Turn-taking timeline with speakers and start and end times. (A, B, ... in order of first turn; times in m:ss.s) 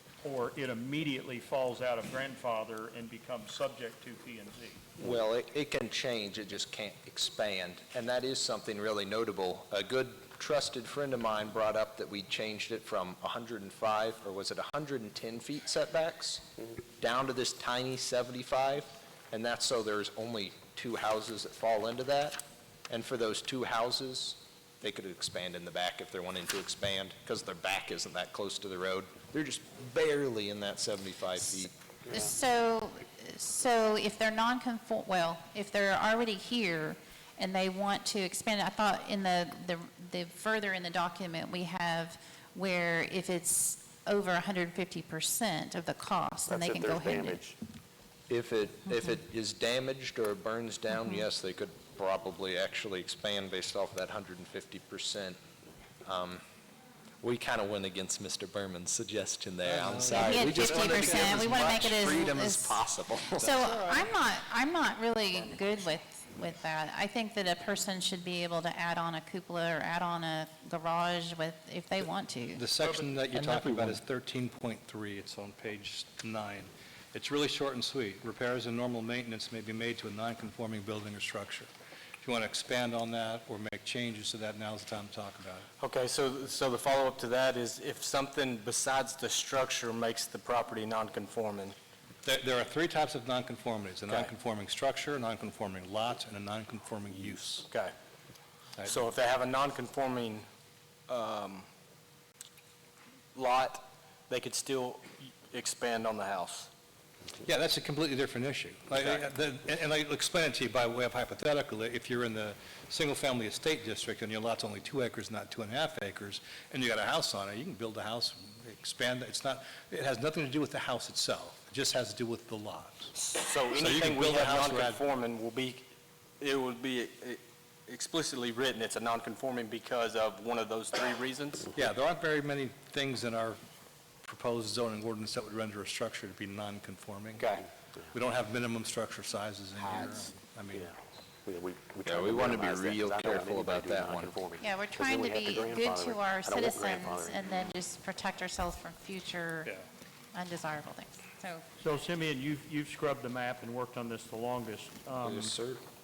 0:00.2-0:04.8 A
0:05.0-0:16.5 B
0:17.0-0:31.7 B
0:32.1-0:47.4 C
0:46.5-0:47.6 D
0:48.3-0:55.4 B
0:56.0-0:56.4 B
0:57.2-1:03.7 B
0:59.6-1:01.0 E
1:00.1-1:02.8 C
1:00.9-1:01.5 F
1:03.4-1:12.6 C
1:12.6-1:21.7 E
1:22.2-1:25.7 E
1:25.8-1:31.7 F
1:32.2-1:37.7 E
1:34.0-1:34.3 F
1:37.7-1:37.9 F
1:38.8-1:40.4 F
1:41.1-1:41.6 F
1:43.3-1:46.7 F
1:47.4-2:03.1 E
2:03.2-2:05.8 F
2:03.7-2:05.0 E
2:06.4-2:11.7 F
2:11.7-2:13.6 E
2:14.3-2:17.5 E
2:17.3-2:17.7 F
2:18.1-2:20.9 E
2:19.8-2:20.3 F
2:20.7-2:27.6 D
2:22.0-2:24.4 B
2:24.6-2:29.7 C
2:30.3-2:31.6 C
2:31.8-2:35.5 A
2:35.2-2:35.8 B